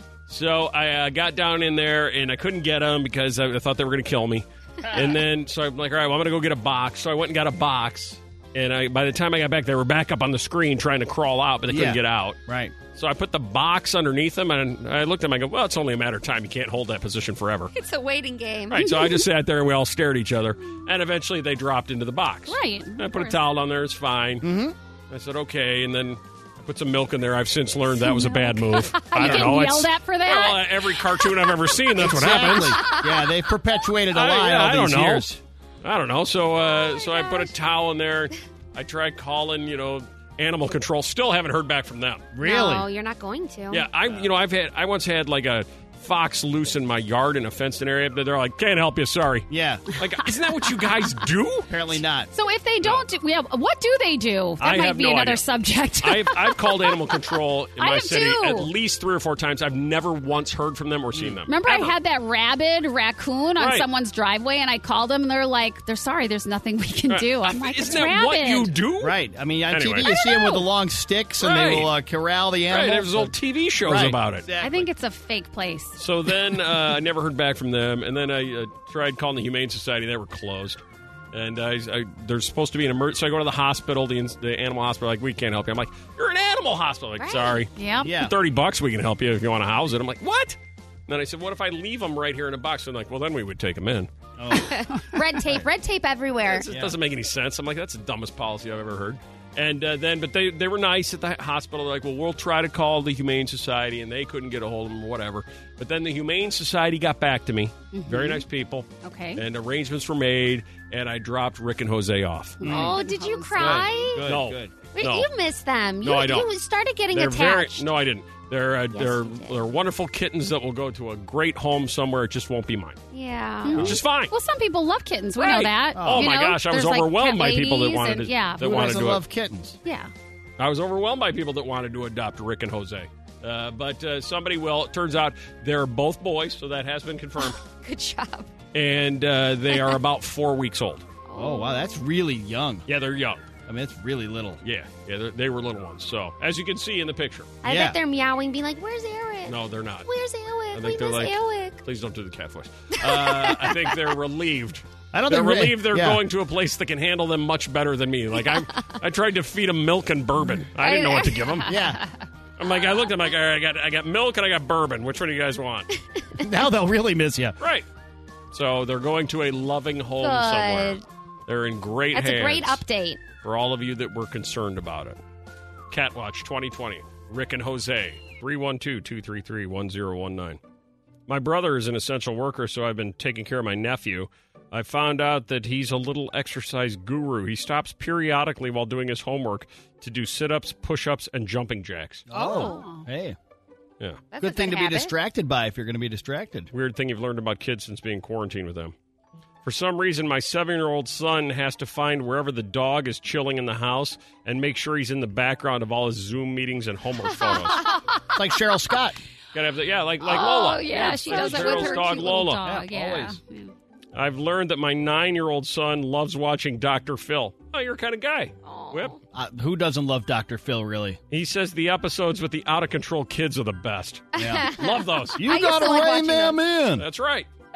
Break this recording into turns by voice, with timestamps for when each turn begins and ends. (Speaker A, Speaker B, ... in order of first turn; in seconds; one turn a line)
Speaker A: 0.3-12.4
Speaker B: 11.7-12.8
Speaker A: 12.9-17.7
Speaker C: 17.7-18.9
Speaker A: 18.7-24.4
Speaker D: 18.8-19.2
Speaker D: 22.5-23.4
Speaker B: 24.4-24.8
Speaker A: 25.1-32.8
Speaker D: 28.0-31.9
Speaker B: 32.0-35.4
Speaker D: 32.8-33.1
Speaker A: 34.1-42.3
Speaker C: 36.8-37.5
Speaker B: 42.3-42.9
Speaker C: 42.4-43.9
Speaker A: 43.7-51.7
Speaker B: 49.5-49.8
Speaker B: 51.7-52.3
Speaker D: 52.3-57.0
Speaker A: 54.6-55.4
Speaker A: 56.0-61.9
Speaker D: 57.8-58.7
Speaker D: 61.5-68.7
Speaker A: 63.6-63.9
Speaker A: 67.1-69.2
Speaker B: 69.0-74.9
Speaker A: 69.7-70.1
Speaker D: 70.1-70.7
Speaker A: 71.4-71.9
Speaker A: 72.7-74.5
Speaker D: 74.6-76.0
Speaker A: 76.0-80.8
Speaker A: 81.3-94.1
Speaker C: 87.2-87.7
Speaker D: 87.8-88.1
Speaker B: 88.0-88.3
Speaker B: 94.4-94.7
Speaker C: 94.5-96.7
Speaker A: 96.5-112.6
Speaker B: 96.7-97.0
Speaker D: 107.9-108.4
Speaker D: 109.0-109.4
Speaker D: 112.6-114.2
Speaker B: 112.6-113.0
Speaker C: 112.7-114.3
Speaker B: 113.5-114.7
Speaker A: 114.2-115.3
Speaker C: 114.9-117.9
Speaker A: 116.0-116.5
Speaker A: 117.1-123.0
Speaker C: 118.9-119.6
Speaker C: 123.1-123.8
Speaker D: 123.6-128.9
Speaker B: 123.7-124.0
Speaker A: 123.8-124.3
Speaker A: 125.4-129.2
Speaker B: 126.0-126.3
Speaker B: 128.6-129.8
Speaker D: 129.8-130.1
Speaker A: 130.6-137.6
Speaker C: 137.4-138.5
Speaker A: 138.7-141.1
Speaker C: 139.7-140.0
Speaker C: 141.3-141.9
Speaker B: 141.3-142.9
Speaker A: 142.9-143.5
Speaker B: 143.7-144.6
Speaker A: 144.6-147.5
Speaker C: 147.6-151.8
Speaker B: 147.6-148.0
Speaker A: 149.4-150.1
Speaker A: 150.7-161.7
Speaker C: 153.0-154.0
Speaker B: 155.1-156.2
Speaker C: 158.6-158.9
Speaker C: 160.7-161.8
Speaker B: 161.7-162.0
Speaker A: 162.6-165.9
Speaker B: 166.4-167.6
Speaker A: 167.6-167.9
Speaker A: 168.5-172.8
Speaker C: 170.2-171.1
Speaker C: 172.1-173.2
Speaker A: 173.4-175.2
Speaker A: 175.9-180.6
Speaker A: 181.3-192.2
Speaker B: 192.3-193.4
Speaker D: 192.3-193.1
Speaker C: 192.4-192.9
Speaker C: 194.3-195.2
Speaker B: 194.4-196.7
Speaker A: 196.7-198.9
Speaker A: 199.6-207.8
Speaker C: 207.3-208.0
Speaker B: 208.3-209.2
Speaker A: 209.5-212.7
Speaker D: 210.2-213.7
Speaker B: 211.1-212.0
Speaker B: 212.6-213.4
Speaker A: 214.1-219.2
Speaker C: 218.6-219.2
Speaker B: 219.3-221.2
Speaker A: 221.3-225.4
Speaker B: 224.4-224.7
Speaker C: 224.4-226.6
Speaker B: 225.4-227.1
Speaker A: 227.0-227.5